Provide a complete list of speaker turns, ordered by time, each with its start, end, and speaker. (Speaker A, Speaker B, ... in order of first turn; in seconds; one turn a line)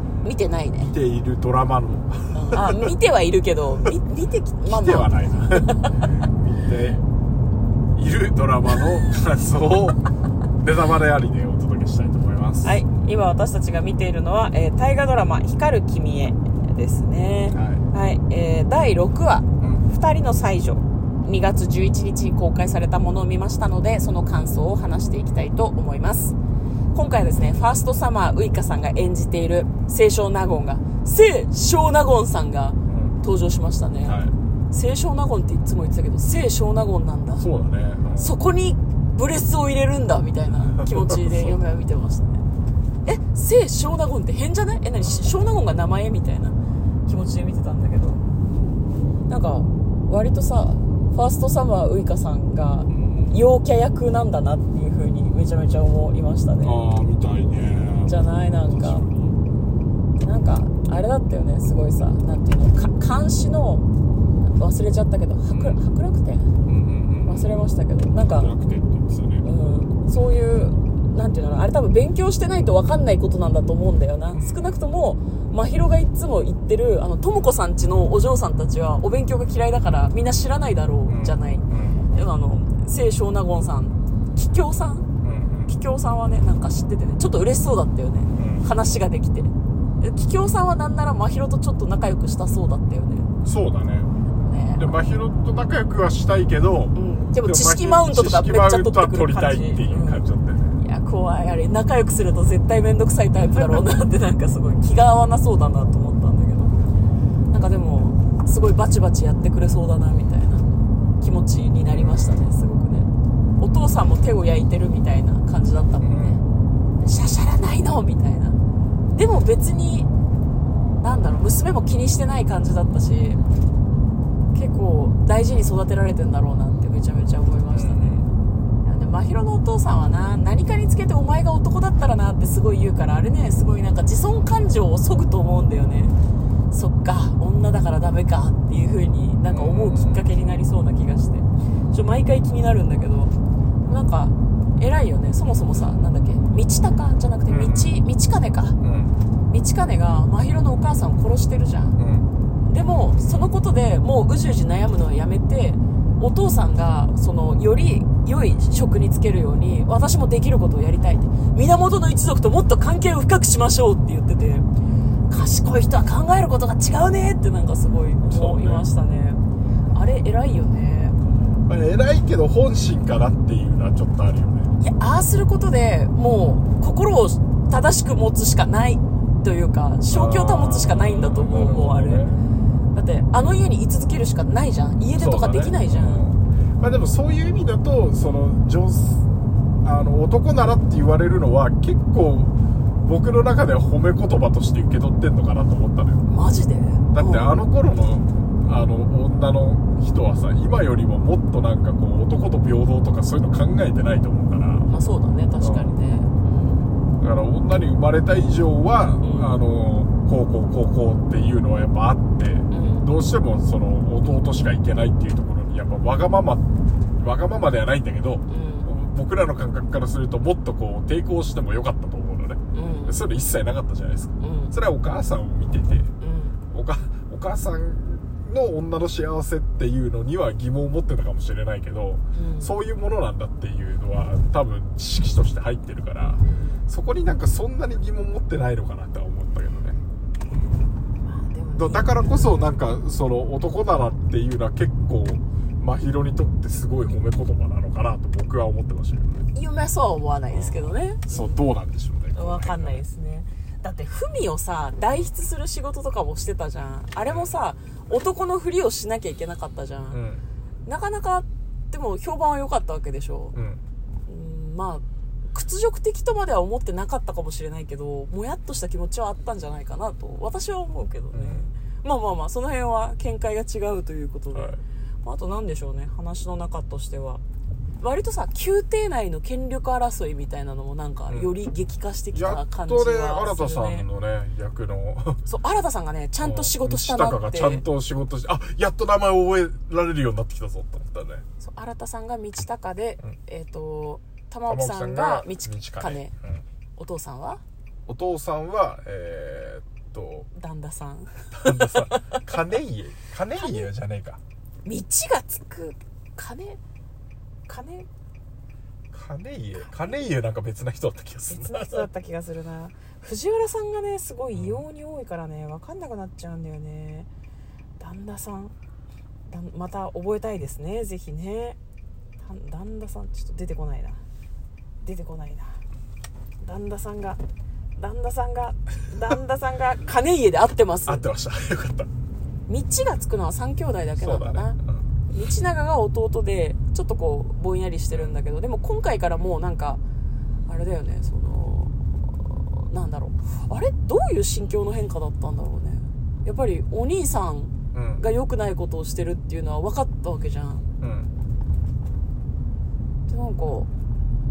Speaker A: 0.2-0.9
Speaker B: 0.8-2.9
Speaker A: 2.3-6.1
Speaker B: 4.6-7.0
Speaker B: 7.9-10.0
Speaker B: 10.6-12.8
Speaker A: 12.6-26.4
Speaker B: 17.5-17.8
Speaker A: 26.9-37.5
Speaker B: 32.9-33.2
Speaker B: 34.0-34.3
Speaker B: 37.4-38.4
Speaker A: 38.2-42.4
Speaker B: 40.8-41.6
Speaker A: 43.0-46.5
Speaker B: 45.0-45.4
Speaker A: 47.1-48.2
Speaker A: 49.3-56.8
Speaker B: 52.9-53.3
Speaker B: 56.6-59.4
Speaker A: 58.0-59.0
Speaker A: 60.2-63.9
Speaker A: 64.4-66.5
Speaker B: 65.5-65.8
Speaker B: 66.7-67.5
Speaker A: 67.2-68.5
Speaker B: 68.2-69.4
Speaker A: 69.4-85.1
Speaker B: 74.3-74.7
Speaker B: 81.1-82.1
Speaker B: 85.2-85.7
Speaker A: 85.7-93.3
Speaker B: 88.3-88.7
Speaker B: 93.4-94.1
Speaker A: 94.4-95.0
Speaker B: 94.8-100.8
Speaker A: 96.9-100.2
Speaker A: 100.8-106.8
Speaker A: 107.5-113.1
Speaker B: 111.9-112.4
Speaker A: 113.6-116.4
Speaker B: 116.0-116.4
Speaker A: 117.0-118.6
Speaker A: 119.1-120.1
Speaker A: 121.0-123.4
Speaker A: 124.5-136.2
Speaker B: 127.7-128.2
Speaker A: 136.7-148.8
Speaker B: 139.5-140.2
Speaker B: 147.5-148.0
Speaker B: 148.8-149.2
Speaker A: 149.5-152.0
Speaker B: 152.0-152.3
Speaker A: 152.7-164.7
Speaker A: 165.3-169.4
Speaker B: 168.3-168.8
Speaker A: 169.9-171.2
Speaker B: 171.7-174.7
Speaker A: 174.8-182.2
Speaker B: 180.1-182.5
Speaker A: 182.9-186.2
Speaker B: 185.1-189.3
Speaker B: 189.8-196.2
Speaker A: 196.3-197.6
Speaker B: 197.1-204.9
Speaker A: 204.9-206.9
Speaker B: 205.6-205.9
Speaker B: 207.2-216.7
Speaker A: 209.2-209.5
Speaker A: 212.7-213.1
Speaker B: 217.2-226.1
Speaker A: 218.5-218.9
Speaker A: 222.7-223.2
Speaker A: 224.4-224.7
Speaker A: 226.2-226.6
Speaker B: 226.7-240.0
Speaker A: 232.3-232.7
Speaker A: 236.4-236.8
Speaker A: 241.2-243.2
Speaker B: 241.8-249.5
Speaker A: 249.5-251.6
Speaker B: 250.5-253.0
Speaker A: 252.3-260.2
Speaker B: 257.2-257.5
Speaker B: 260.1-260.4
Speaker A: 260.8-263.6
Speaker B: 263.5-263.8
Speaker A: 264.3-277.4
Speaker B: 271.3-271.7
Speaker B: 274.5-274.8
Speaker A: 278.0-284.1
Speaker B: 281.3-281.5
Speaker B: 282.3-285.4
Speaker A: 285.4-287.8
Speaker B: 286.4-291.4
Speaker A: 291.6-296.3
Speaker B: 294.6-296.6
Speaker A: 297.0-297.6
Speaker B: 298.1-300.5
Speaker A: 300.5-302.4
Speaker B: 301.5-304.4
Speaker A: 303.5-303.9
Speaker A: 304.8-306.8
Speaker A: 307.7-308.1
Speaker B: 309.1-312.1
Speaker A: 311.5-317.3
Speaker B: 314.5-314.8
Speaker A: 318.0-318.7
Speaker A: 319.5-321.8
Speaker A: 322.4-324.2
Speaker A: 325.0-325.8
Speaker A: 326.6-327.4
Speaker A: 328.0-331.2
Speaker B: 331.1-332.1
Speaker A: 332.7-334.8
Speaker B: 334.1-335.0
Speaker A: 335.3-340.0
Speaker A: 340.7-350.8
Speaker B: 347.9-348.2
Speaker B: 351.0-351.3
Speaker A: 353.3-353.9